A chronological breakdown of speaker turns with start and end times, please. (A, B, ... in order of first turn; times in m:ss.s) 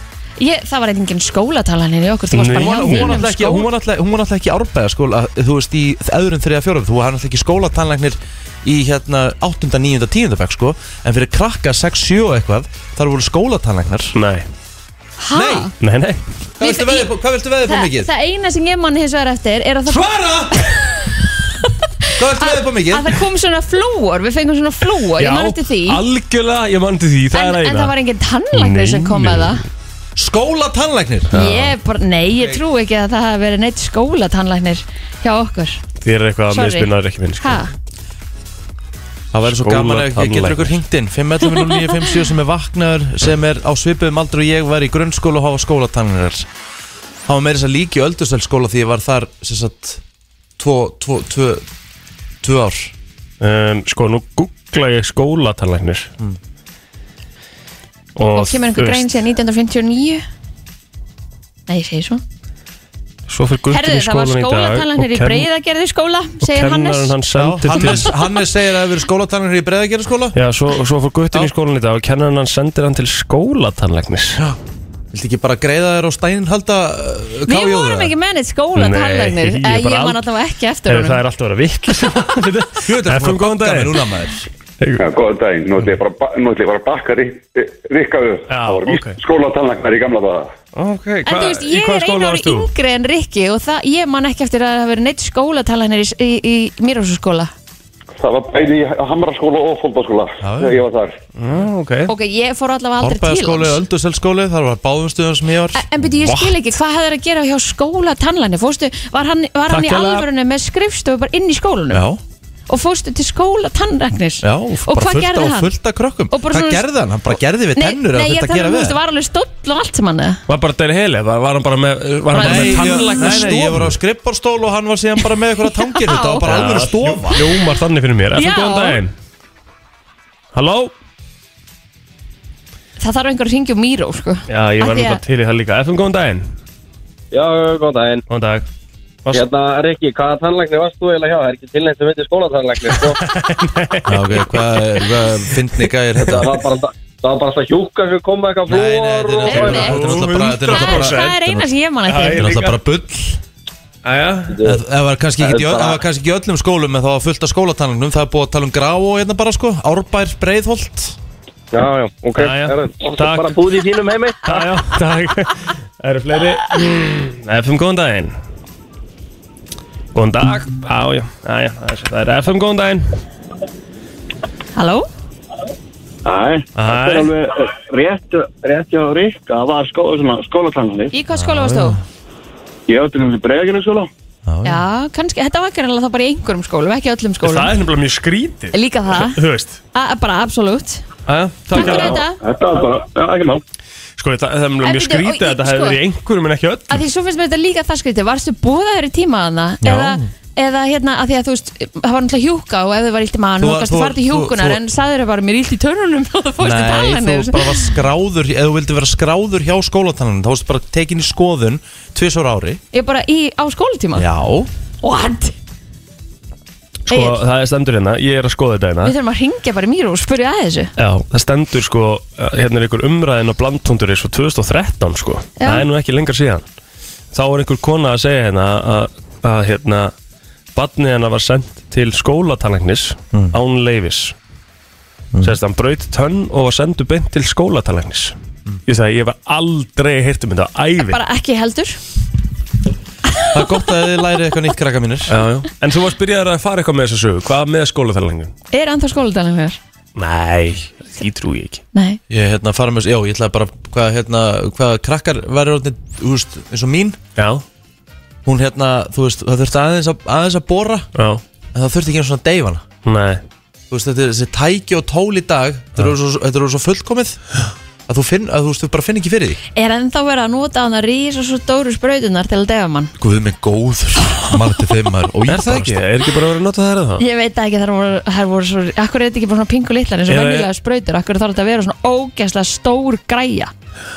0:00.4-0:03.6 A
0:02.3-0:03.2 B
0:02.4-0:14.2 C
0:14.1-0:14.4 B
0:15.2-0:15.7 A
0:15.3-0:15.7 C
0:15.8-0:16.2 B
0:16.6-0:18.1 C
0:16.6-0:17.1 A
0:17.6-0:20.1 A
0:19.9-0:20.5 C
0:20.6-0:21.2 A
0:22.2-0:23.2 C
0:22.4-0:26.0 A
0:25.2-0:27.9 B
0:27.3-0:29.6 A
0:28.5-0:29.6 B
0:30.2-0:31.3 C
0:31.3-0:31.7 B
0:31.3-0:35.8 A
0:36.0-0:37.6 B
0:36.5-0:37.7 A
0:39.3-0:46.5 C
0:39.4-0:40.8 B
0:47.2-0:50.0 C
0:50.6-0:51.6 C
0:52.4-0:52.9 C
0:53.4-0:56.1 B
0:58.2-0:59.1 B
0:58.3-1:00.2 A
1:01.7-1:02.2 A
1:03.3-1:05.5 B
1:03.7-1:07.1 A
1:06.4-1:08.1 B
1:07.3-1:10.4 C
1:07.7-1:08.4 A
1:10.3-1:14.4 B
1:15.1-1:18.1 C
1:17.5-1:21.2 A
1:18.7-1:20.2 B
1:20.9-1:24.0 B
1:22.8-1:24.5 C
1:25.0-1:30.5 D
1:28.5-1:29.2 B
1:30.7-1:32.7 B
1:31.2-1:37.5 A
1:38.2-1:41.2 D
1:40.4-1:40.8 C
1:41.4-1:42.1 B
1:42.1-1:43.8 A
1:43.0-1:45.8 C
1:45.7-1:52.0 A
1:46.2-1:46.5 B
1:49.7-1:50.1 C
1:49.8-1:50.2 B
1:51.9-1:52.2 C
1:52.7-1:55.7 A
1:54.4-1:59.0 C
1:56.3-1:56.8 A
1:57.7-2:00.4 A
2:00.5-2:04.0 B
2:02.3-2:03.7 A
2:02.3-2:07.5 C
2:05.7-2:06.5 A
2:06.4-2:09.1 B
2:08.3-2:09.0 A
2:10.5-2:10.9 B
2:13.0-2:15.2 A
2:14.5-2:16.5 B
2:17.3-2:18.2 E
2:18.3-2:18.6 B
2:19.3-2:23.2 E
2:22.9-2:25.4 B
2:24.1-2:26.5 C
2:26.2-2:29.9 E
2:28.7-2:31.2 C
2:29.5-2:29.9 A
2:29.6-2:32.8 B
2:30.7-2:32.5 A
2:32.4-2:33.4 C
2:34.0-2:34.5 B
2:34.5-2:34.8 E
2:34.6-2:41.2 C
2:35.4-2:36.0 E
2:41.7-2:44.6 E
2:42.4-2:43.7 B
2:44.4-2:48.3 B
2:50.1-2:53.1 B
2:54.8-2:55.0 A
2:56.3-2:56.6 F
2:56.3-2:57.3 E
2:56.8-2:57.3 B
2:57.8-2:59.5 E
2:57.9-3:01.1 F
3:01.1-3:02.0 A
3:01.3-3:02.0 C
3:02.9-3:04.0 F
3:03.7-3:04.0 E
3:04.4-3:04.9 C
3:04.6-3:07.7 A
3:07.4-3:09.8 B
3:08.7-3:09.4 A
3:09.9-3:11.0 A
3:11.3-3:12.2 B
3:11.7-3:12.4 A
3:11.9-3:13.6 F
3:14.2-3:17.0 B
3:14.8-3:16.0 A
3:16.9-3:28.0 A
3:19.8-3:20.3 C
3:23.6-3:24.8 C
3:26.6-3:32.8 C
3:32.9-3:34.2 A
3:34.1-3:34.7 C
3:35.0-3:35.5 A
3:37.1-3:39.1 B
3:37.1-3:37.4 A
3:39.0-3:40.9 A
3:41.0-3:46.6 B
3:45.6-3:45.8 A
3:47.3-3:50.1 B
3:50.7-3:54.3 B
3:55.3-3:55.6 C
3:55.4-3:58.3 B
3:58.8-4:01.2 B
4:01.0-4:02.0 A
4:03.5-4:05.4 C
4:05.3-4:08.5 B
4:08.7-4:09.8 A
4:10.2-4:11.8 B
4:11.9-4:12.2 A
4:12.3-4:17.2 C
4:17.4-4:17.6 B
4:18.4-4:21.1 C
4:21.2-4:21.4 B
4:21.7-4:22.8 C
4:23.0-4:23.4 B
4:23.9-4:27.4 C
4:28.1-4:29.6 C
4:29.7-4:33.1 A
4:33.2-4:36.0 C
4:35.5-4:37.2 B
4:37.2-4:43.7 A
4:40.3-4:40.7 B